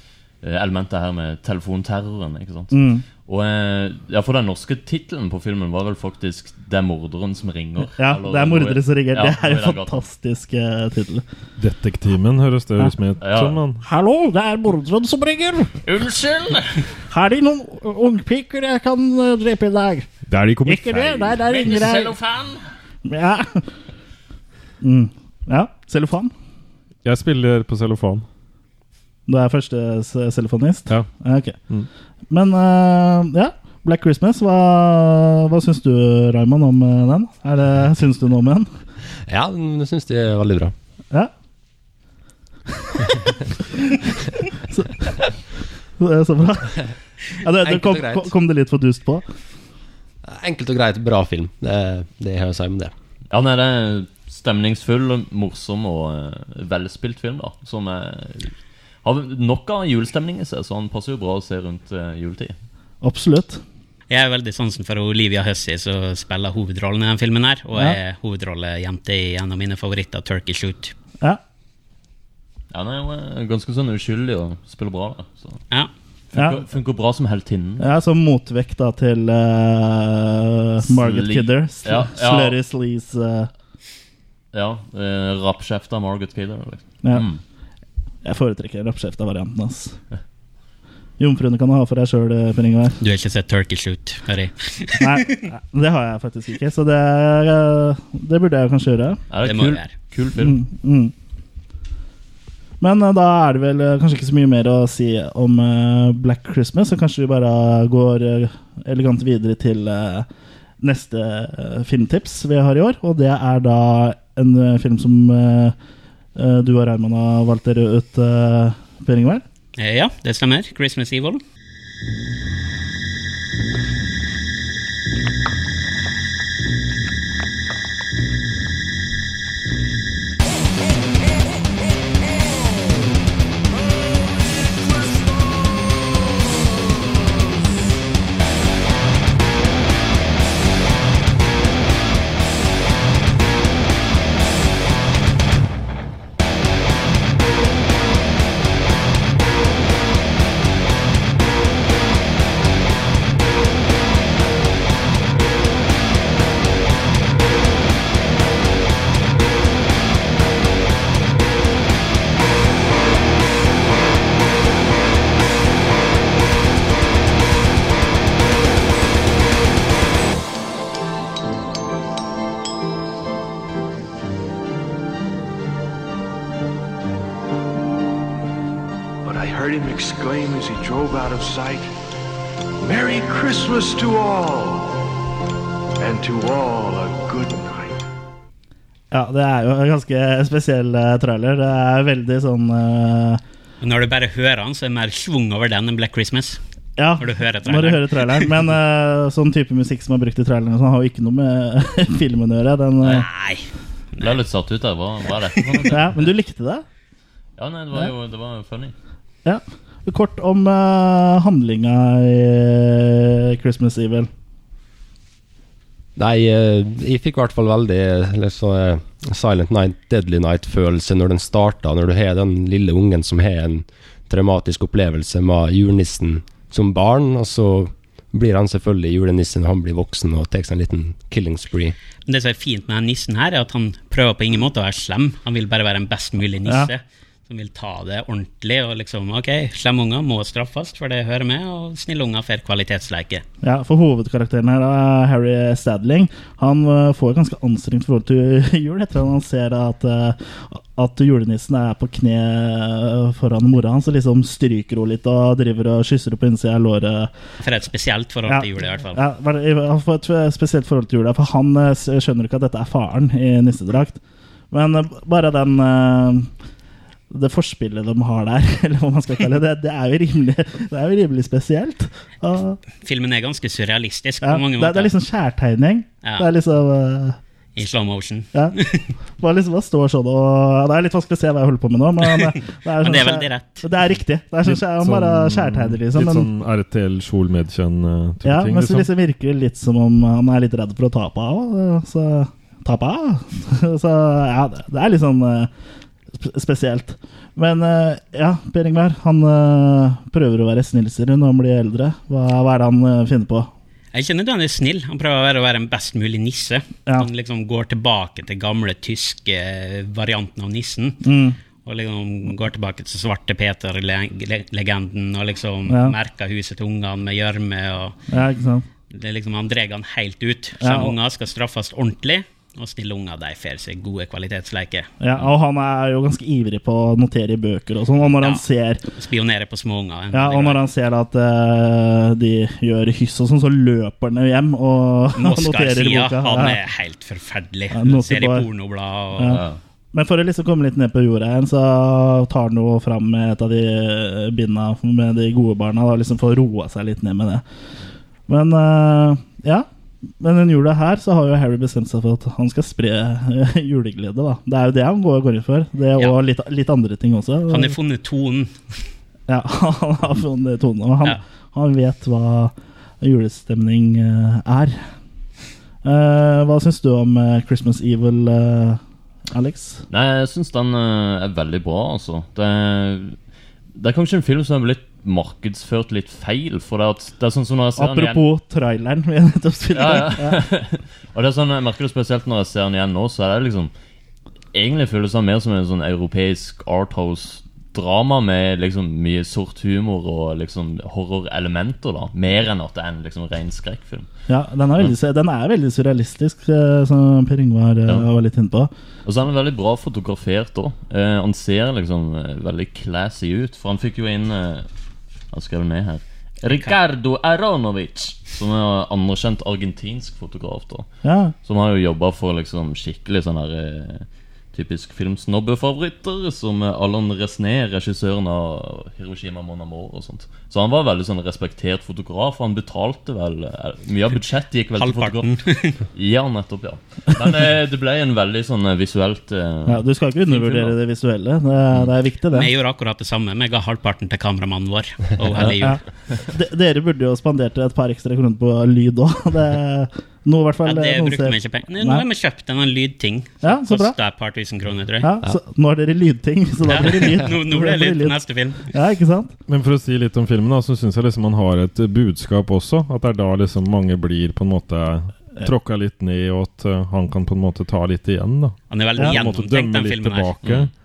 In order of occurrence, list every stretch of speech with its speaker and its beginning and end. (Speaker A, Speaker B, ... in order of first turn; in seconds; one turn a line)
Speaker A: 0.4-10.0
Speaker B: 2.7-3.0
Speaker B: 7.9-11.2
Speaker C: 11.6-13.8
Speaker A: 13.2-13.6
Speaker B: 13.8-15.7
Speaker A: 15.8-16.9
Speaker B: 17.1-20.1
Speaker C: 20.3-21.6
Speaker B: 20.7-22.1
Speaker A: 21.4-22.7
Speaker B: 23.1-23.7
Speaker B: 24.8-26.3
Speaker C: 27.1-28.3
Speaker B: 29.3-31.6
Speaker B: 32.3-38.7
Speaker D: 39.3-40.7
Speaker B: 44.7-45.1
Speaker B: 46.0-46.8
Speaker B: 47.4-49.2
Speaker D: 47.6-48.3
Speaker D: 50.3-52.9
Speaker A: 53.3-62.5
Speaker B: 63.0-63.6
Speaker E: 64.1-70.9
Speaker A: 72.7-75.6
Speaker A: 76.3-77.9
Speaker B: 76.4-76.6
Speaker B: 77.8-83.5
Speaker A: 80.8-82.6
Speaker A: 84.5-87.4
Speaker B: 88.2-90.0
Speaker B: 91.2-93.0
Speaker E: 93.0-95.4
Speaker B: 95.0-99.2
Speaker A: 99.3-100.6
Speaker E: 99.4-99.9
Speaker B: 100.4-101.1
Speaker B: 102.8-110.3
Speaker B: 110.8-115.8
Speaker B: 116.4-119.4
Speaker E: 119.8-121.4
Speaker F: 179.2-181.9
Speaker F: 182.8-185.1
Speaker F: 186.0-188.0
Speaker B: 189.1-193.4
Speaker E: 193.8-196.6
Speaker B: 197.0-203.3
Speaker E: 197.2-198.5
Speaker E: 203.1-204.4
Speaker A: 204.2-206.2
Speaker E: 205.6-205.9
Speaker B: 205.9-206.8
Speaker A: 207.6-208.9
Speaker B: 209.4-214.3
Speaker D: 216.2-231.9
Speaker E: 232.3-243.4
Speaker B: 243.6-257.3
Speaker E: 257.6-259.2
Speaker B: 258.5-264.2
Speaker B: 264.7-266.5
Speaker B: 267.3-272.8
Speaker E: 273.0-275.1
Speaker B: 274.4-277.4
Speaker E: 277.8-279.1
Speaker B: 279.4-286.5
Speaker E: 282.3-283.9
Speaker C: 284.6-289.1
Speaker B: 288.4-295.7
Speaker B: 296.3-303.7
Speaker E: 304.1-311.2
Speaker B: 311.2-311.6
Speaker E: 311.9-318.2
Speaker B: 315.9-316.1
Speaker B: 318.3-318.9
Speaker E: 319.1-325.1
Speaker B: 320.8-321.1
Speaker B: 325.2-329.0
Speaker E: 328.4-328.6
Speaker E: 329.2-330.8
Speaker B: 330.3-336.8
Speaker E: 335.4-339.6
Speaker B: 337.9-338.7
Speaker A: 339.5-339.8
Speaker B: 340.1-347.6
Speaker B: 348.5-349.9
Speaker B: 350.4-357.9
Speaker E: 357.7-358.8
Speaker B: 359.5-365.1
Speaker B: 366.0-369.0
Speaker B: 369.5-370.0
Speaker A: 370.1-373.4
Speaker A: 374.0-378.4
Speaker B: 378.0-380.7
Speaker A: 379.9-383.9
Speaker A: 384.7-394.3
Speaker B: 394.5-398.9
Speaker A: 399.3-404.9
Speaker A: 405.5-411.1
Speaker B: 411.2-411.5
Speaker A: 411.6-431.0
Speaker E: 425.0-426.0
Speaker B: 429.9-432.7
Speaker E: 432.5-436.0
Speaker B: 435.8-442.2
Speaker E: 440.9-445.3
Speaker B: 443.6-444.2
Speaker B: 445.2-449.6
Speaker E: 446.9-448.9
Speaker C: 449.7-460.9
Speaker E: 458.9-460.6
Speaker A: 460.6-460.9